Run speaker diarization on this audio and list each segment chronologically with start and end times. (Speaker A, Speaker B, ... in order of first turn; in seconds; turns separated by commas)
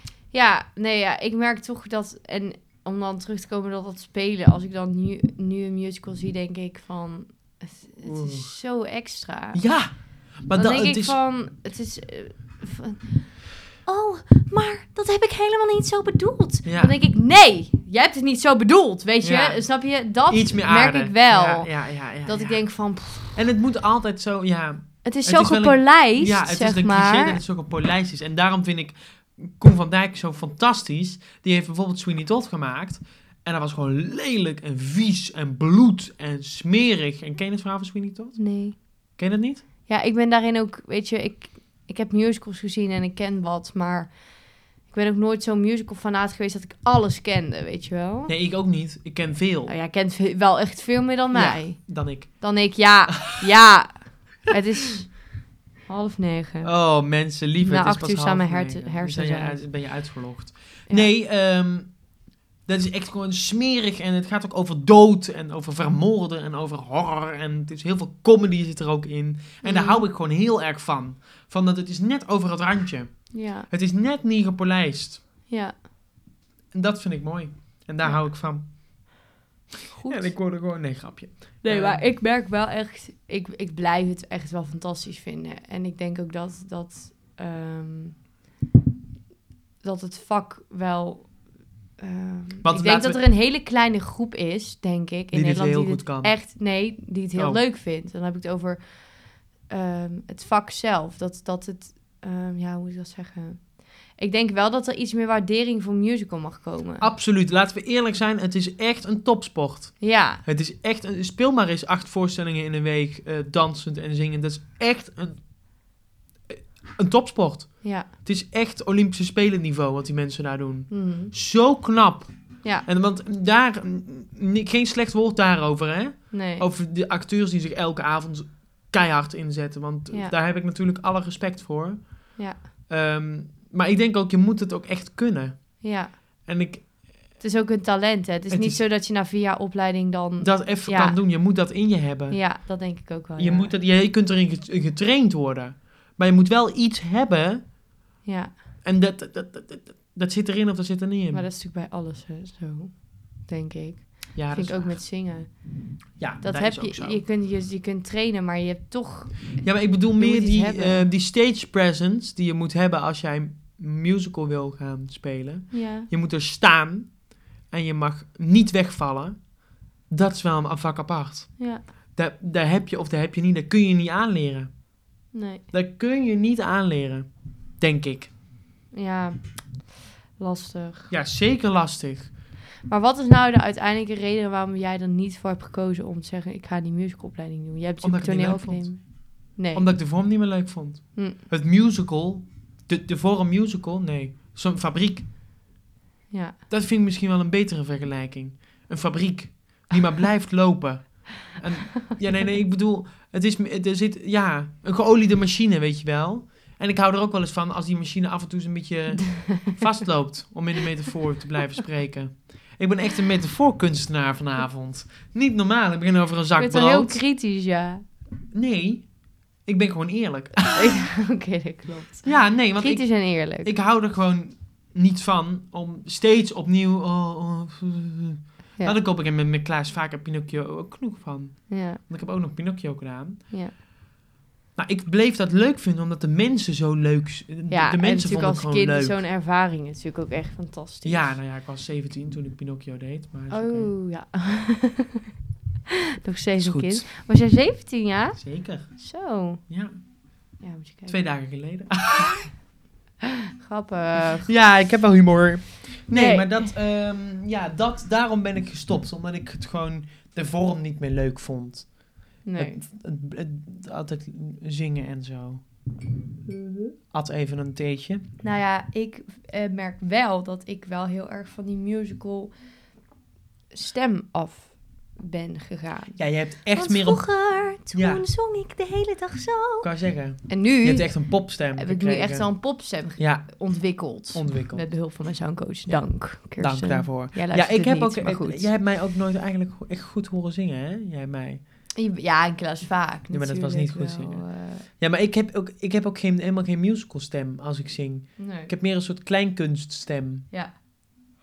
Speaker A: 0.3-10.0, Speaker B: 8.0-8.5, Speaker B: 9.5-11.2, Speaker A: 10.5-23.4, Speaker B: 16.6-16.9, Speaker B: 19.2-39.6, Speaker A: 25.0-27.4, Speaker A: 38.4-39.2, Speaker A: 39.9-48.3, Speaker B: 48.3-49.7, Speaker A: 49.6-60.0, Speaker B: 51.3-52.6, Speaker B: 56.6-62.0, Speaker B: 62.6-75.2, Speaker A: 69.6-70.0, Speaker A: 73.3-73.7, Speaker A: 75.5-75.8, Speaker B: 76.7-79.2, Speaker A: 78.0-78.2, Speaker A: 79.9-80.4, Speaker B: 80.0-82.1, Speaker A: 81.6-88.2, Speaker A: 89.8-107.1, Speaker B: 92.6-93.2, Speaker B: 95.3-96.7, Speaker B: 97.3-97.6, Speaker B: 107.0-115.7, Speaker A: 110.0-110.4, Speaker B: 116.5-137.4, Speaker A: 117.8-118.1, Speaker A: 120.9-121.3, Speaker A: 126.3-126.7, Speaker A: 132.3-132.6, Speaker A: 135.8-136.4, Speaker A: 137.4-141.2, Speaker B: 138.5-138.8, Speaker B: 140.4-142.6, Speaker A: 142.3-143.8, Speaker B: 143.4-147.7, Speaker A: 148.2-148.5, Speaker B: 148.8-151.5, Speaker A: 151.3-161.1, Speaker B: 154.3-155.1, Speaker B: 156.2-157.2, Speaker B: 159.6-175.0, Speaker A: 165.7-166.1, Speaker A: 171.6-171.8, Speaker A: 175.3-175.7, Speaker B: 175.7-178.3, Speaker A: 178.9-181.1, Speaker B: 181.1-182.3, Speaker A: 182.8-189.9, Speaker B: 188.0-195.3, Speaker A: 196.3-196.6, Speaker B: 196.7-217.2, Speaker A: 216.6-218.0, Speaker B: 218.5-221.0, Speaker A: 220.7-223.7, Speaker B: 222.2-233.5, Speaker A: 231.7-232.0, Speaker B: 234.8-239.2, Speaker A: 237.7-241.3, Speaker B: 241.0-243.9, Speaker A: 243.5-245.2, Speaker A: 246.2-249.7, Speaker B: 246.6-247.1, Speaker B: 248.4-249.1, Speaker B: 249.6-250.0, Speaker A: 250.6-251.2, Speaker B: 251.1-252.5, Speaker A: 253.6-254.5, Speaker B: 254.1-265.6, Speaker A: 256.1-256.7, Speaker A: 262.4-262.8, Speaker A: 266.5-266.8, Speaker B: 267.1-268.2, Speaker A: 268.4-272.5, Speaker A: 273.7-279.9, Speaker B: 276.2-278.2, Speaker B: 279.8-285.1, Speaker A: 280.5-288.7, Speaker B: 285.9-291.6, Speaker A: 291.9-294.9, Speaker B: 293.3-300.4, Speaker A: 298.4-298.7, Speaker A: 300.5-300.8